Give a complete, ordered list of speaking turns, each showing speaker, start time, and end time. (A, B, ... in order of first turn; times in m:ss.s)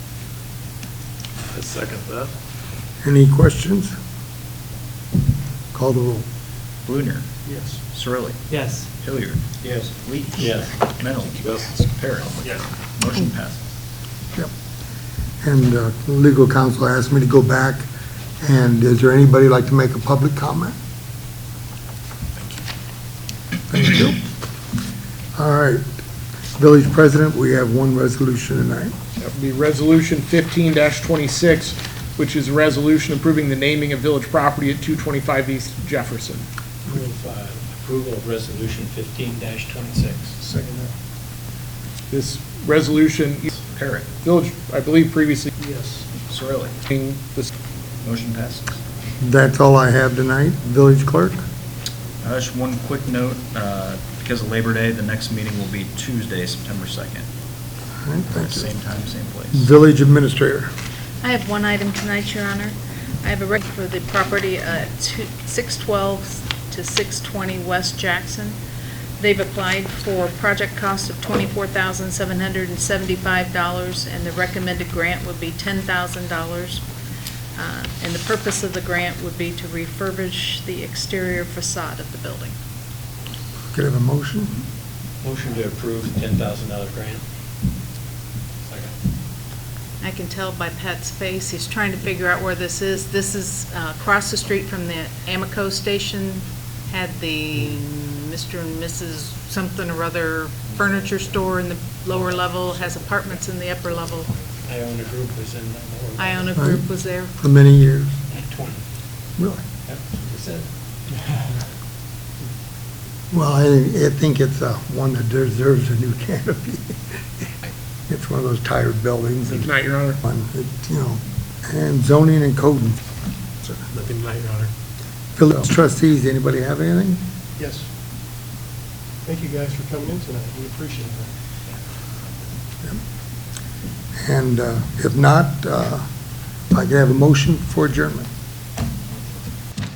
0:01.5-0:02.3 A
0:03.0-0:03.9 B
0:05.7-0:06.2 B
0:06.8-0:07.3 C
0:07.5-0:07.8 D
0:07.9-0:08.4 C
0:09.0-0:13.6 C
0:09.6-0:10.8 A
0:15.4-0:17.9 B
0:18.4-0:20.8 B
0:23.7-0:24.2 B
0:25.4-0:25.8 B
0:26.6-0:28.9 B
0:29.2-0:36.4 E
0:36.9-0:40.4 A
0:40.4-0:40.9 D
0:42.1-0:43.6 E
0:43.6-0:44.1 C
0:44.2-0:45.5 E
0:45.6-0:46.0 D
0:46.3-0:46.8 C
0:46.9-0:47.5 E
0:48.0-0:48.8 C
0:49.2-0:51.4 B
0:52.2-0:57.3 C
0:58.0-0:58.7 B
0:58.4-0:59.7 C
0:59.5-1:00.7 B
1:01.2-1:08.6 F
1:09.2-1:16.8 F
1:17.6-1:22.6 F
1:23.7-1:24.5 B
1:25.2-1:27.2 A
1:28.6-1:29.0 A
1:30.0-1:44.3 F
1:44.7-1:46.5 A
1:46.2-1:47.3 F
1:46.6-1:48.1 B
1:48.3-1:48.8 A
1:49.4-1:49.6 B
1:49.9-1:50.6 A
1:53.3-1:57.0 B
1:58.1-1:59.7 B
1:59.5-2:00.2 E
2:00.2-2:03.0 B
2:04.0-2:04.7 D
2:05.4-2:07.2 B
2:07.6-2:07.9 D
2:09.2-2:11.3 D
2:14.2-2:16.0 B
2:16.7-2:18.3 B